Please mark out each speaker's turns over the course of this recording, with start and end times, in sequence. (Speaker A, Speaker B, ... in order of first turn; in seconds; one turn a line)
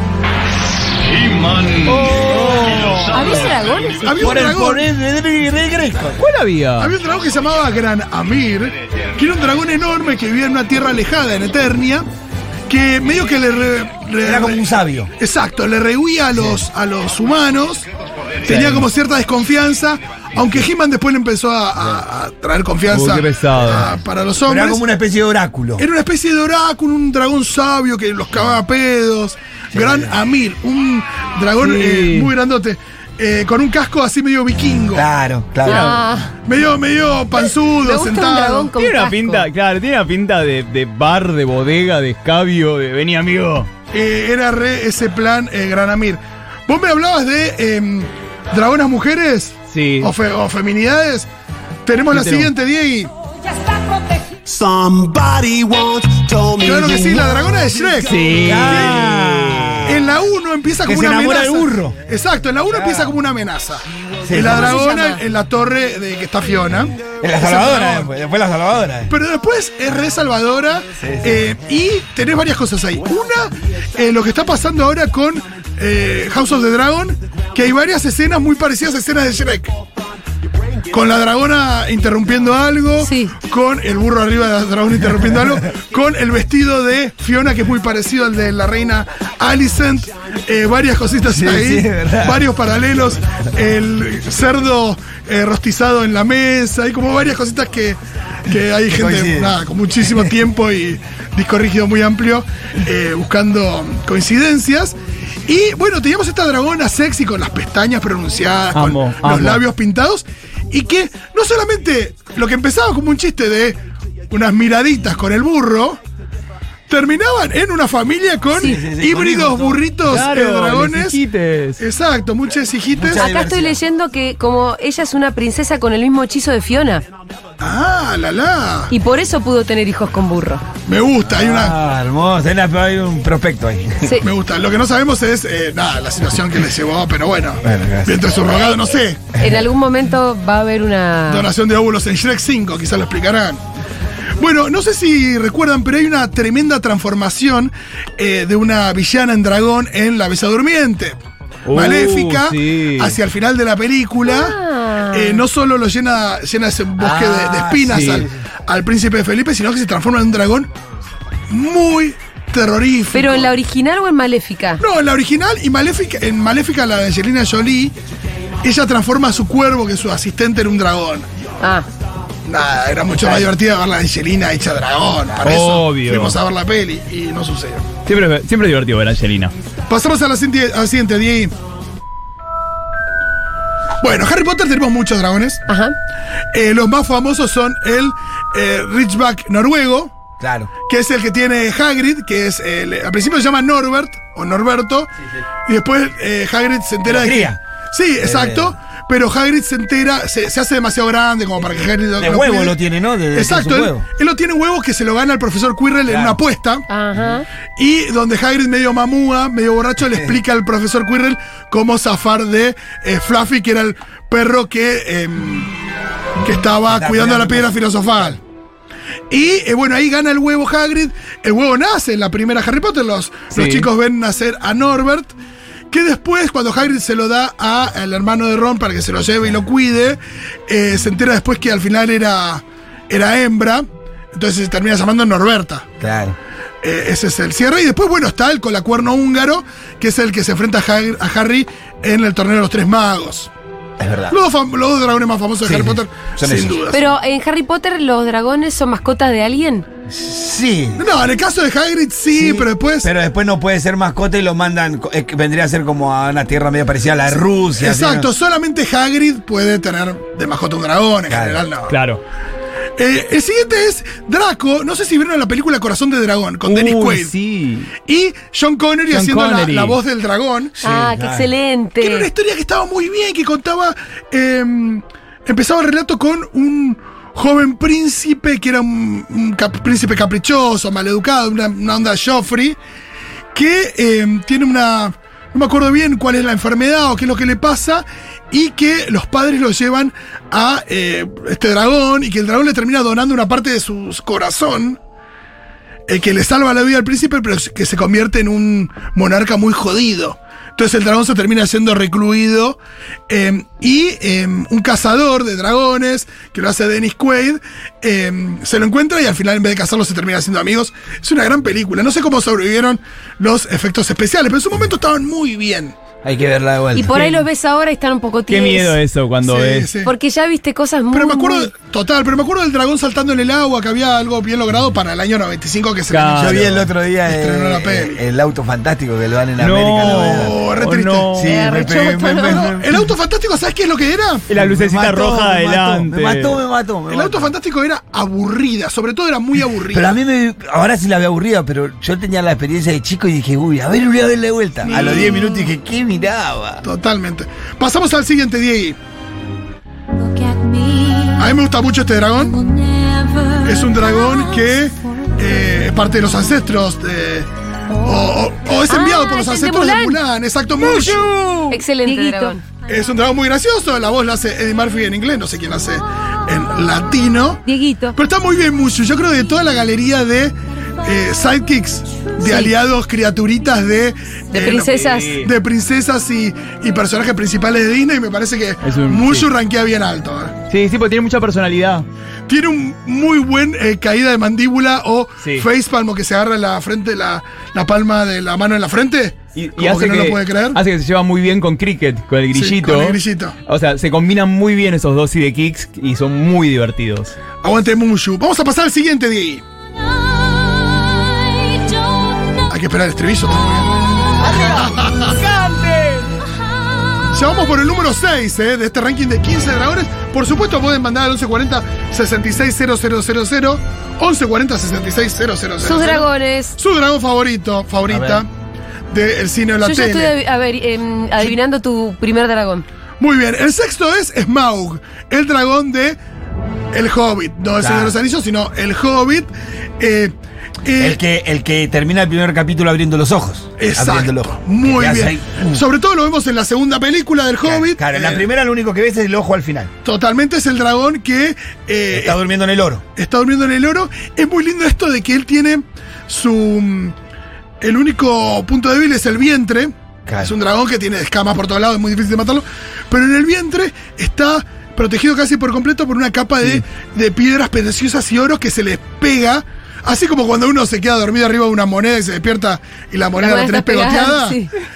Speaker A: 1.0-4.0
Speaker B: 1.9-2.8
Speaker C: 2.0-3.2
Speaker D: 3.1-4.4
Speaker E: 4.0-4.9
Speaker C: 4.2-6.2
Speaker B: 6.2-6.9
Speaker E: 6.8-12.1
Speaker E: 12.7-17.9
Speaker C: 14.2-15.1
Speaker E: 18.4-24.8
Speaker B: 18.4-18.9
Speaker B: 22.9-23.9
Speaker C: 24.4-25.8
Speaker E: 25.8-35.1
Speaker C: 29.7-30.1
Speaker B: 31.6-32.3
Speaker C: 34.9-35.9
Speaker B: 35.6-36.0
Speaker D: 35.6-36.3
Speaker E: 36.4-38.7
Speaker D: 37.3-39.5
Speaker B: 38.8-43.7
Speaker E: 43.9-51.3
Speaker B: 49.7-50.1
Speaker E: 51.8-53.1
Speaker B: 52.1-52.5
Speaker A: 54.4-57.7
Speaker E: 56.6-59.1
Speaker B: 58.0-59.8
Speaker C: 58.4-59.9
Speaker E: 59.8-68.1
Speaker C: 60.8-61.9
Speaker C: 62.7-63.1
Speaker C: 64.2-64.8
Speaker D: 64.3-65.2
Speaker C: 67.2-69.1
Speaker E: 69.1-79.8
Speaker C: 71.0-71.4
Speaker E: 80.9-116.0
Speaker D: 83.0-83.3
Speaker C: 91.3-92.4
Speaker C: 98.9-99.5
Speaker B: 108.7-109.6
Speaker E: 116.9-121.2
Speaker D: 118.5-118.8
Speaker C: 118.6-119.8
Speaker B: 120.1-121.8
Speaker E: 121.8-123.2
Speaker C: 123.0-123.8
Speaker D: 123.1-127.0
Speaker E: 127.6-128.9
Speaker D: 128.9-130.6
Speaker E: 130.8-131.8
Speaker C: 131.3-134.1
Speaker D: 134.0-134.3
Speaker E: 134.2-139.3
Speaker C: 137.6-138.3
Speaker C: 139.4-139.6
Speaker D: 139.4-141.5
Speaker E: 141.3-143.6
Speaker E: 144.4-151.2
Speaker B: 151.7-153.2
Speaker E: 151.7-154.6
Speaker D: 154.2-155.4
Speaker E: 155.1-160.7
Speaker C: 157.0-158.3
Speaker B: 157.9-158.2
Speaker E: 161.5-163.5
Speaker D: 163.1-164.8
Speaker E: 164.8-167.9
Speaker E: 168.6-171.3
Speaker D: 171.6-171.8
Speaker E: 172.4-177.9
Speaker B: 175.4-176.4
Speaker B: 178.1-179.5
Speaker E: 179.9-181.5
Speaker E: 184.0-185.6
Speaker D: 185.7-185.9
Speaker E: 186.5-190.1
Speaker C: 190.4-190.7
Speaker E: 190.8-195.1
Speaker E: 195.7-202.8
Speaker C: 197.0-197.6
Speaker C: 198.2-198.7
Speaker C: 202.2-204.0
Speaker E: 203.3-206.9
Speaker C: 206.1-206.4
Speaker D: 206.9-207.4
Speaker E: 207.8-215.7
Speaker E: 216.4-218.4
Speaker C: 216.9-217.7
Speaker E: 219.3-225.3
Speaker B: 223.5-223.9
Speaker E: 225.9-235.9
Speaker C: 236.0-236.4
Speaker E: 236.8-243.5
Speaker C: 244.0-244.3
Speaker E: 244.3-247.1
Speaker C: 245.6-246.8
Speaker D: 246.9-249.8
Speaker C: 250.1-251.0
Speaker E: 251.0-253.1
Speaker C: 252.3-258.3
Speaker E: 257.3-261.9
Speaker C: 261.3-261.6
Speaker B: 261.9-262.2
Speaker E: 263.0-267.3
Speaker B: 266.6-267.9
Speaker E: 268.0-270.8
Speaker B: 269.1-270.0
Speaker C: 270.8-271.5
Speaker D: 270.8-272.3
Speaker E: 272.0-282.8
Speaker E: 283.5-295.0
Speaker E: 296.1-315.9
Speaker C: 316.2-317.3
Speaker D: 316.9-318.9
Speaker B: 318.5-319.9
Speaker E: 319.4-320.1
Speaker D: 320.0-321.7
Speaker E: 321.1-328.2
Speaker B: 326.1-326.8
Speaker C: 326.4-330.5
Speaker B: 329.6-331.6
Speaker E: 329.9-331.3
Speaker C: 331.3-332.9
Speaker D: 331.4-332.6
Speaker E: 332.4-334.4
Speaker B: 334.5-336.6
Speaker C: 334.5-337.5
Speaker E: 337.1-340.2
Speaker C: 339.9-346.8
Speaker E: 344.8-345.7
Speaker E: 346.8-349.0
Speaker E: 351.3-352.8
Speaker E: 353.5-357.5
Speaker E: 358.0-361.5
Speaker D: 358.9-360.2
Speaker B: 360.9-361.8
Speaker D: 361.7-362.6
Speaker E: 362.8-367.6
Speaker D: 367.6-368.2
Speaker E: 368.1-380.6
Speaker D: 372.4-372.7
Speaker D: 374.5-375.3
Speaker B: 374.7-375.5
Speaker B: 378.8-379.5
Speaker B: 380.7-382.1
Speaker E: 382.5-390.8
Speaker B: 385.4-385.7
Speaker B: 389.5-397.4
Speaker E: 392.5-393.6
Speaker E: 397.6-399.6
Speaker E: 402.7-405.4
Speaker B: 404.4-406.3
Speaker E: 407.3-418.5
Speaker D: 415.8-416.8
Speaker C: 418.1-418.4
Speaker E: 419.1-420.4
Speaker D: 419.8-422.8
Speaker E: 423.2-426.2
Speaker E: 426.9-431.2
Speaker C: 427.8-428.1
Speaker C: 431.0-435.8
Speaker E: 433.8-438.5
Speaker C: 437.6-439.9
Speaker E: 440.0-442.4
Speaker C: 442.1-443.0
Speaker E: 443.1-447.1
Speaker E: 447.8-464.6
Speaker C: 450.3-450.5
Speaker D: 463.4-464.7